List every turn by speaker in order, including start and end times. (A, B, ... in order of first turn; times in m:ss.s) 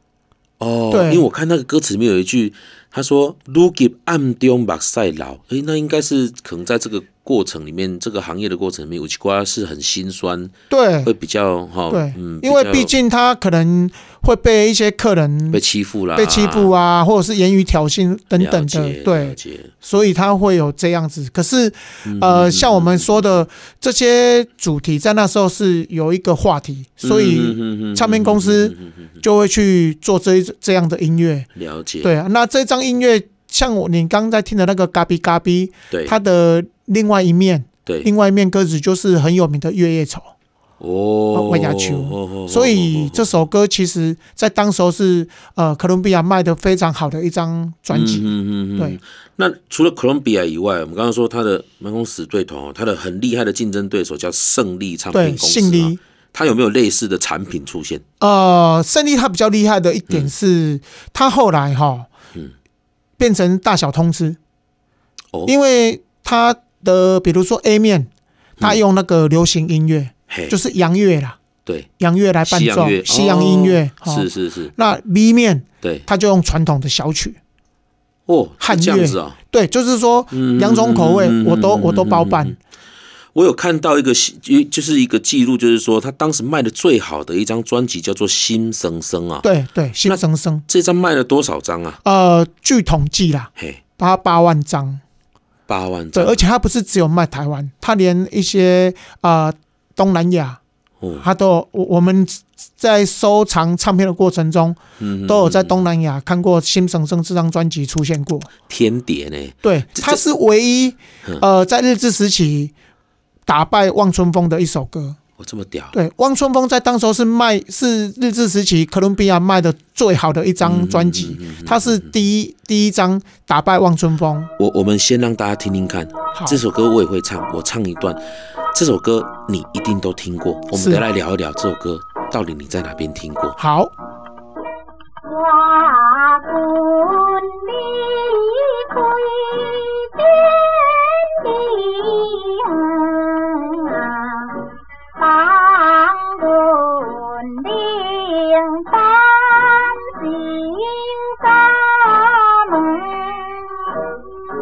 0:00.6-0:10.5 A
0:00.9-0:01.3 B
0:10.7-0:11.1 B
0:11.0-0:12.9 A
0:11.9-0:15.6 B
0:15.5-0:16.8 A
0:16.2-0:31.5 B
0:18.4-0:19.7 A
0:22.0-0:23.3 A
0:27.0-0:29.1 A
0:31.6-0:32.1 A
0:32.0-0:40.3 B
0:40.8-0:43.4 A
0:41.4-0:49.0 B
0:47.9-0:58.0 A
0:55.1-0:56.0 B
0:58.2-1:02.1 B
1:03.2-1:04.4 B
1:05.5-1:08.1 B
1:08.6-1:11.4 B
1:10.3-1:10.6 A
1:12.0-1:17.4 B
1:12.5-1:14.7 A
1:18.3-1:19.4 A
1:18.6-1:22.6 B
1:20.3-1:22.6 A
1:23.4-1:29.5 A
1:29.4-1:30.7 B
1:30.1-1:32.0 A
1:32.0-1:35.0 B
1:35.7-1:36.4 A
1:36.1-1:40.6 B
1:41.2-1:48.5 B
1:45.0-1:45.8 A
1:48.7-1:50.2 A
1:49.6-1:52.7 B
1:53.5-1:55.2 B
1:55.4-1:56.0 A
1:55.9-2:04.5 B
2:00.6-2:02.1 A
2:04.6-2:08.2 A
2:06.3-2:06.6 B
2:08.7-2:13.6 A
2:10.7-2:11.0 B
2:13.6-2:13.9 B
2:15.3-2:34.2 C